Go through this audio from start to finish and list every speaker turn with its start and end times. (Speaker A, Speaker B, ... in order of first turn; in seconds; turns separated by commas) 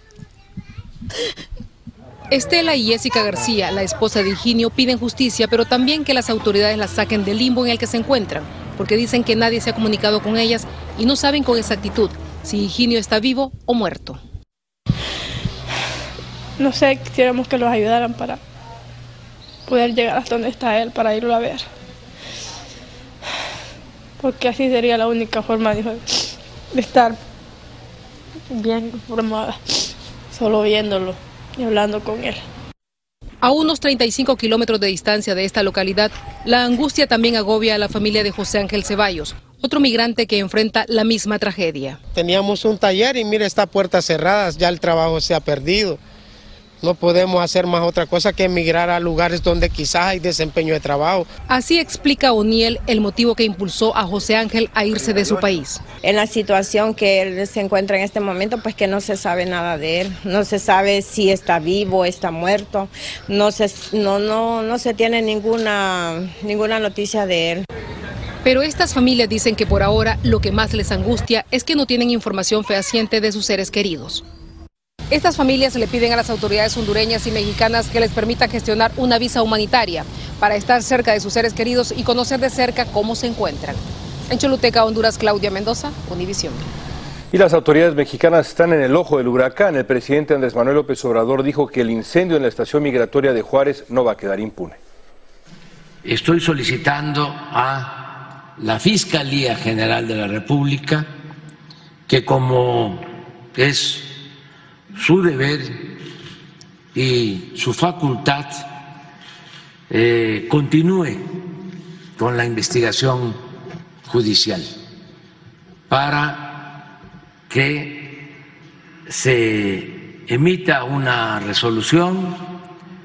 Speaker A: 2.3-14.2, Speaker B: 16.6-18.4, Speaker B: 19.7-21.7, Speaker B: 24.2-27.2, Speaker B: 28.5-29.8, Speaker B: 30.3-32.4, Speaker A: 33.4-42.0, Speaker C: 42.1-46.0, Speaker C: 46.8-51.3, Speaker A: 51.5-55.8, Speaker D: 56.0-67.6, Speaker A: 68.4-74.2, Speaker A: 75.1-86.7, Speaker E: 87.3-94.8, Speaker F: 96.0-101.1, Speaker F: 102.1-103.0, Speaker F: 103.5-104.1, Speaker F: 104.9-105.8, Speaker F: 106.9-108.7, Speaker F: 109.9-111.2, Speaker F: 112.2-113.4, Speaker F: 114.1-114.7, Speaker F: 115.9-116.8, Speaker F: 117.5-118.3, Speaker F: 119.1-122.4